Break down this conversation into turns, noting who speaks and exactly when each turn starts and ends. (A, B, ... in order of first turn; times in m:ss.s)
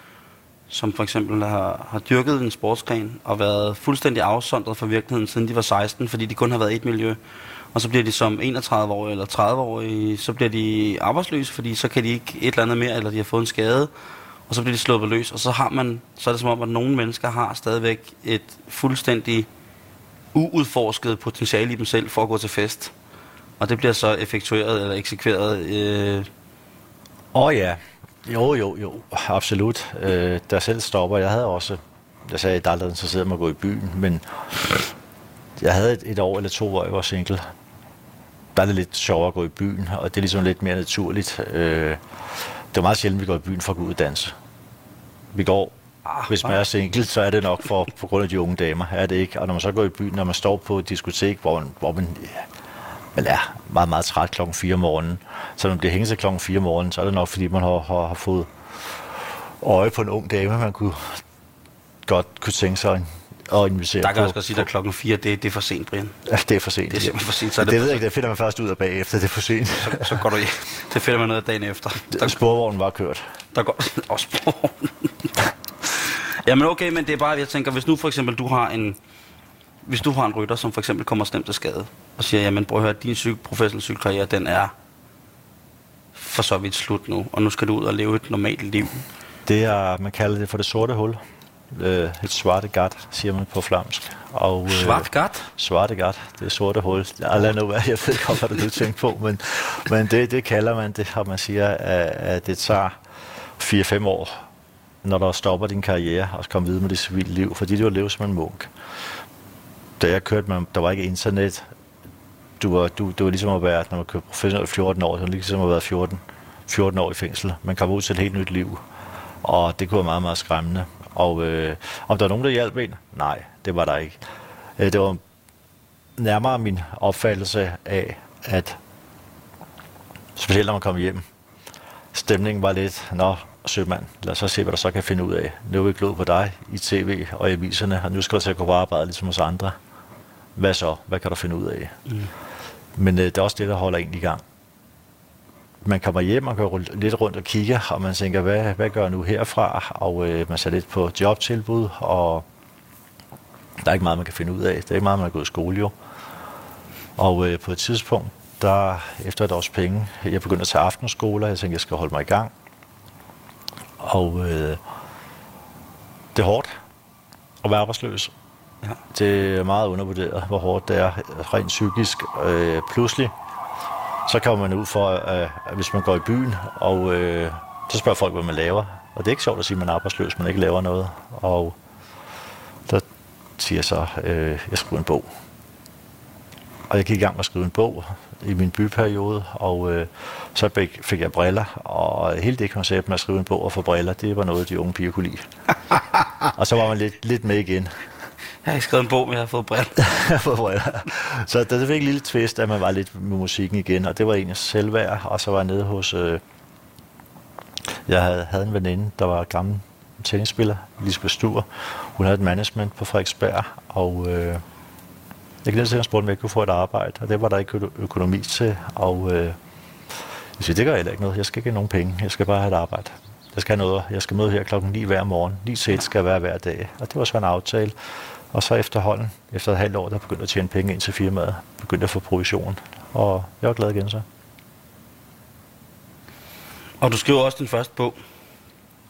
0:00.7-0:07.2 A
0:07.7-0:13.9 A
0:14.5-0:19.5 A
0:20.3-0:22.9 A
0:23.6-0:26.3 A
0:27.3-0:34.8 B
0:35.6-0:37.4 B
0:38.6-0:42.0 B
0:42.7-0:44.3 B
0:45.3-0:45.7 B
0:46.1-0:46.6 A
0:46.3-0:52.5 B
0:53.1-1:01.2 B
1:02.1-1:04.6 B
1:04.0-1:06.1 A
1:06.2-1:10.2 B
1:06.9-1:08.0 A
1:09.8-1:12.4 A
1:12.1-1:13.2 B
1:13.5-1:15.3 A
1:15.9-1:19.0 A
1:19.8-1:24.7 A
1:26.1-1:29.0 A
1:29.4-1:43.0 B
1:34.7-1:35.5 A
1:43.6-1:44.4 B
1:45.0-1:48.7 B
1:50.0-1:51.6 B
1:52.6-1:58.8 B
1:59.4-2:04.2 B
2:04.8-2:05.2 B
2:06.2-2:08.8 B
2:10.4-2:11.2 B
2:12.1-2:19.8 B
2:20.6-2:22.0 B
2:23.0-2:24.4 B
2:25.8-2:32.4 B
2:33.8-2:35.9 B
2:37.2-2:42.5 B
2:44.0-2:44.8 B
2:46.3-2:46.7 B
2:47.6-2:48.3 B
2:49.1-2:53.3 B
2:54.3-3:01.7 B
3:03.6-3:05.3 B
3:06.9-3:15.5 B
3:16.4-3:18.0 B
3:18.6-3:20.1 A
3:20.0-3:26.4 B
3:28.1-3:34.6 B
3:35.6-3:39.6 B
3:40.6-3:47.9 B
3:48.5-3:54.2 B
3:57.0-3:58.2 A